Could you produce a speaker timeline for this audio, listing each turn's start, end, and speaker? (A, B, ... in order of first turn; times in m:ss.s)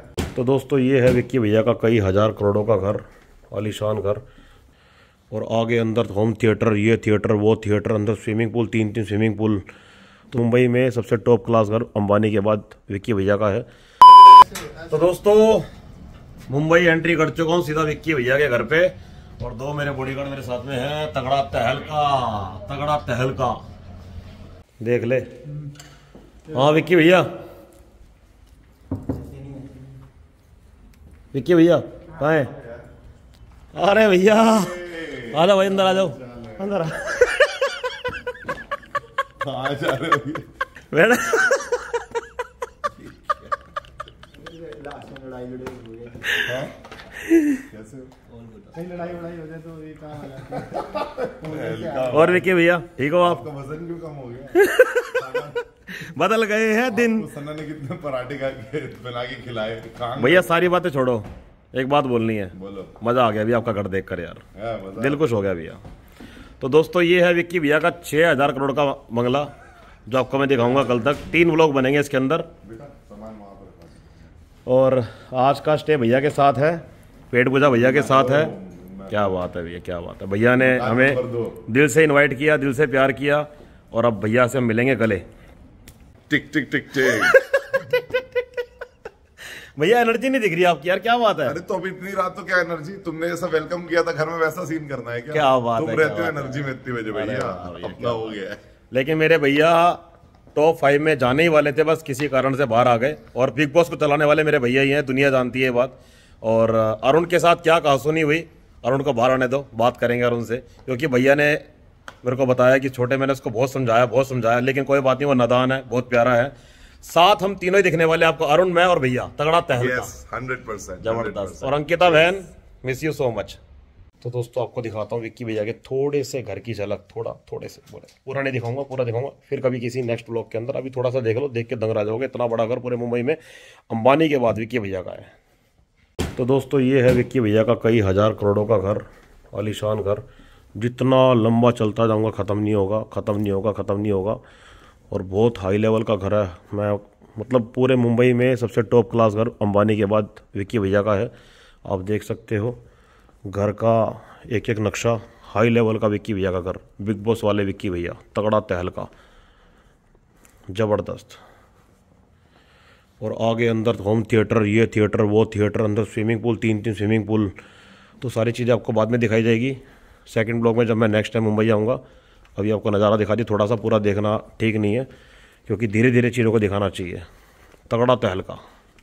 0:00.3-0:04.2 A
0:05.3-0:09.6 A
0:10.3-0:13.7 A
0:14.5-0:15.6 A
0:16.5-0:23.6 A
0:24.8-0:25.3 A
0:26.5-0:27.3 A
0:31.3-0:32.5 A
0:33.7-0:34.8 A
0:34.3-0:36.8 B
0:35.3-0:37.6 A
0:39.4-0:40.5 B
0:40.9-0:42.2 A
0:44.4-0:46.3 C
0:46.2-0:46.6 A
0:46.4-0:46.7 B
0:47.2-0:47.6 A
0:47.7-0:48.1 B
0:48.5-0:52.3 C
0:50.7-0:52.5 B
0:52.1-0:53.5 A
0:53.2-0:55.6 B
0:54.6-0:55.2 A
0:56.0-0:57.3 A
0:56.9-1:00.5 B
1:00.2-1:04.4 A
1:02.5-1:03.0 B
1:04.6-1:05.2 B
1:05.0-1:05.8 A
1:06.6-1:09.5 A
1:10.1-1:12.5 A
1:12.6-1:14.3 B
1:14.7-1:18.5 A
1:17.7-1:19.3 B
1:19.1-1:25.2 A
1:20.6-1:21.6 B
1:26.3-1:27.4 B
1:27.0-1:28.2 A
1:29.8-1:31.6 A
1:31.4-1:38.6 B
1:35.3-1:38.4 A
1:38.9-1:40.0 A
1:40.5-1:51.6 A
1:52.2-2:00.1 A
1:59.8-2:02.2 B
2:01.0-2:03.6 A
2:04.2-2:15.3 A
2:16.4-2:20.2 A
2:20.8-2:24.4 A
2:25.1-2:31.3 A
2:31.8-2:32.8 A
2:33.5-2:39.1 A
2:40.7-2:41.4 A
2:43.2-2:47.5 A
2:48.2-2:52.0 A
2:52.6-2:55.1 A
2:55.7-2:57.2 A
2:57.9-2:58.6 A